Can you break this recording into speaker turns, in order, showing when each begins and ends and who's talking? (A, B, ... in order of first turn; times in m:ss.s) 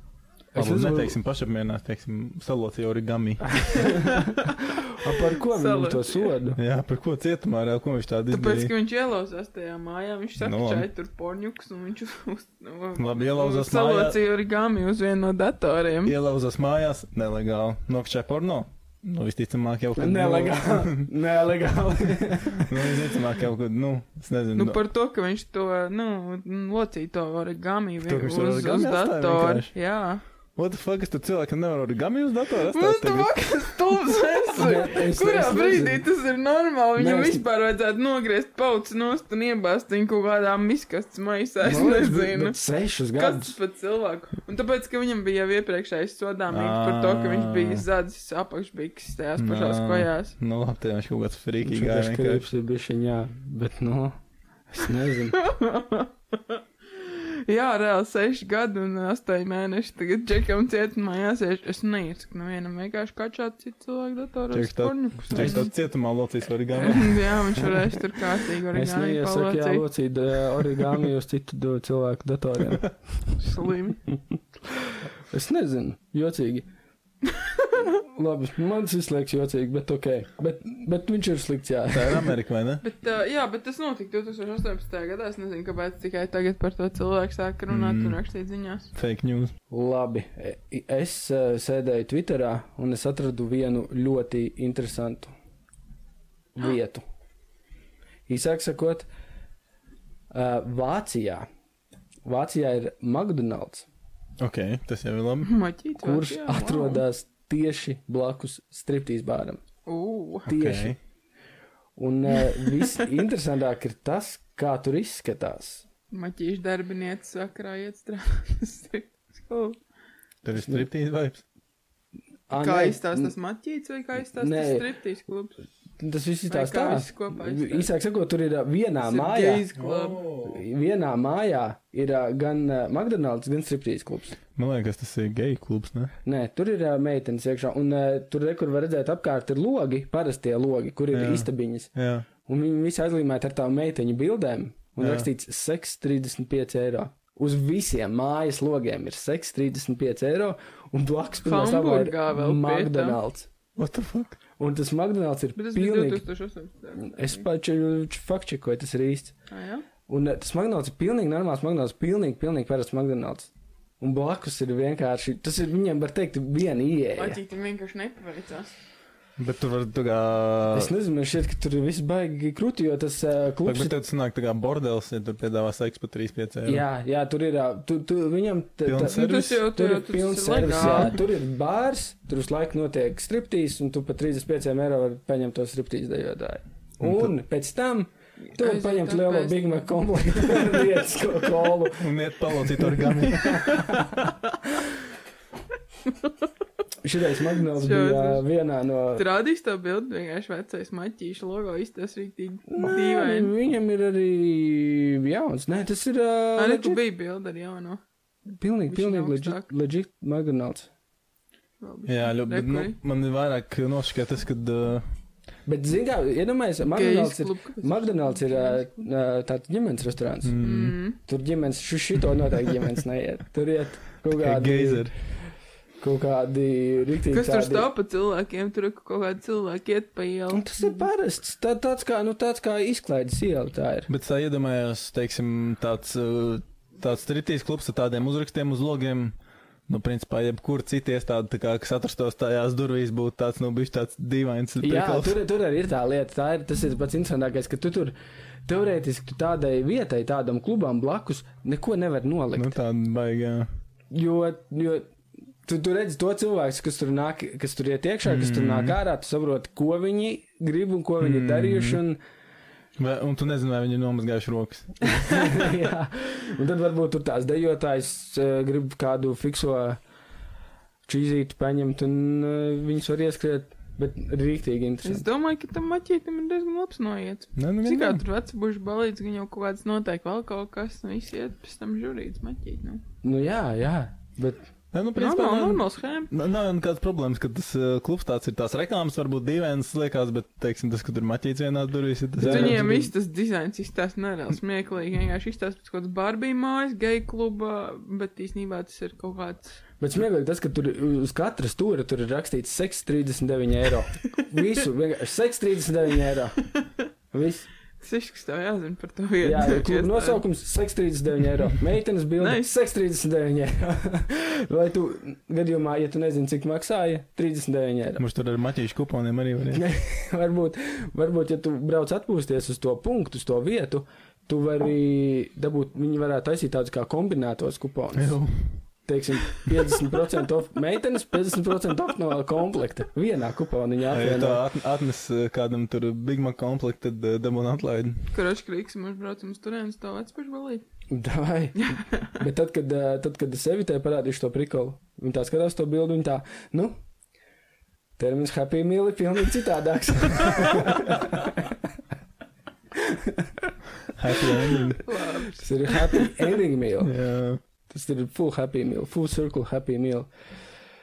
0:00.5-0:01.2 A
0:00.6-0:04.0 B
0:03.7-0:06.6 A
0:04.0-0:06.3 C
0:06.6-0:08.7 B
0:08.3-0:16.1 C
0:10.4-0:10.8 B
0:13.0-0:14.2 B
0:16.0-0:21.1 B
0:20.0-0:22.9 A
0:22.5-0:24.8 B
0:24.6-0:30.2 C
0:28.0-0:29.7 B
0:30.6-0:33.4 B
0:32.7-0:42.6 C
0:34.5-0:36.1 A
0:37.0-0:37.4 A
0:41.6-0:43.6 A
0:43.1-0:50.3 C
0:46.5-0:47.8 B
0:49.4-0:52.4 B
0:51.6-0:54.2 A
0:54.7-0:55.4 A
0:55.3-1:05.7 C
1:04.5-1:07.4 B
1:06.7-1:09.8 C
1:08.7-1:13.4 A
1:13.4-1:14.0 C
1:14.8-1:16.6 A
1:17.4-1:17.8 C
1:17.8-1:22.3 A
1:21.9-1:22.8 B
1:22.8-1:28.9 C
1:27.7-1:28.2 B
1:28.9-1:29.5 B
1:29.7-1:35.3 A
1:36.5-1:37.0 A
1:38.3-1:39.1 A
1:40.3-1:41.4 A
1:42.2-1:43.9 A
1:44.4-1:45.5 B
1:45.4-1:47.0 C
1:46.0-1:49.6 A
1:49.8-1:50.5 C
1:50.4-1:50.9 A
1:50.5-1:51.0 B
1:52.0-1:55.8 A
1:52.4-1:53.0 C
1:56.1-1:59.8 C
2:00.4-2:01.4 B
2:00.6-2:00.8 A
2:02.5-2:03.3 A
2:02.5-2:05.6 C
2:04.4-2:04.9 A
2:06.0-2:09.6 A
2:06.5-2:07.9 C
2:09.0-2:10.2 C
2:09.7-2:10.6 B
2:10.4-2:14.4 A
2:14.6-2:16.1 B
2:16.2-2:21.9 A
2:21.1-2:22.2 B
2:22.4-2:33.5 A
2:25.0-2:25.3 B
2:31.4-2:33.2 C
2:33.8-2:34.4 B
2:34.6-2:36.2 A
2:35.6-2:37.4 C
2:37.0-2:39.3 A
2:39.5-2:39.8 C
2:40.1-2:47.4 A
2:47.2-2:48.7 C
2:49.4-2:50.9 B
2:50.7-2:54.0 A
2:53.6-2:56.8 B
2:56.6-3:14.2 A
2:58.8-2:59.6 B
2:59.0-3:01.2 C
3:07.0-3:07.3 B
3:08.5-3:09.6 C
3:10.4-3:10.7 C
3:12.0-3:14.1 B
3:17.0-3:19.2 A
3:17.8-3:18.4 C
3:19.1-3:23.5 C
3:22.7-3:27.0 A
3:26.6-3:28.0 C
3:28.5-3:30.9 A
3:28.9-3:29.7 C
3:31.8-3:33.0 C
3:32.1-3:35.0 B
3:35.6-3:40.6 A
3:36.9-3:38.8 C
3:40.4-3:41.0 B
3:40.6-3:41.2 C
3:41.2-3:45.2 A
3:44.3-3:45.1 B
3:46.0-3:47.9 A
3:47.3-3:51.0 C
3:50.5-3:54.1 A
3:54.1-3:59.3 B
3:59.9-4:05.4 B
4:04.8-4:08.1 A
4:08.6-4:12.7 A
4:12.5-4:13.7 B
4:14.1-4:15.1 A
4:15.6-4:22.2 A
4:18.2-4:19.0 B
4:21.2-4:22.0 B
4:23.0-4:25.2 B
4:25.3-4:30.0 A
4:31.0-4:35.3 A
4:35.0-4:43.0 C
4:37.6-4:38.2 B
4:43.2-4:44.6 A
4:44.9-4:52.9 B
4:45.2-4:46.3 C
4:52.4-4:53.1 A
4:52.4-4:59.8 C
5:00.0-5:06.6 A
5:07.3-5:07.7 A
5:08.0-5:10.4 C
5:09.4-5:18.2 A
5:12.4-5:12.6 C
5:18.2-5:19.8 B
5:19.7-5:28.4 A
5:28.2-5:28.8 B
5:29.0-5:34.6 A
5:34.1-5:38.3 B
5:38.3-5:40.8 C
5:41.1-5:46.9 A
5:41.8-5:42.3 C
5:48.2-5:51.8 A
5:50.5-5:50.8 C
5:52.9-5:53.7 A
5:54.1-5:55.0 B
5:54.4-5:54.8 A
5:55.0-5:56.4 C
5:55.5-5:57.1 A
5:57.0-5:57.6 B
5:57.9-6:00.3 A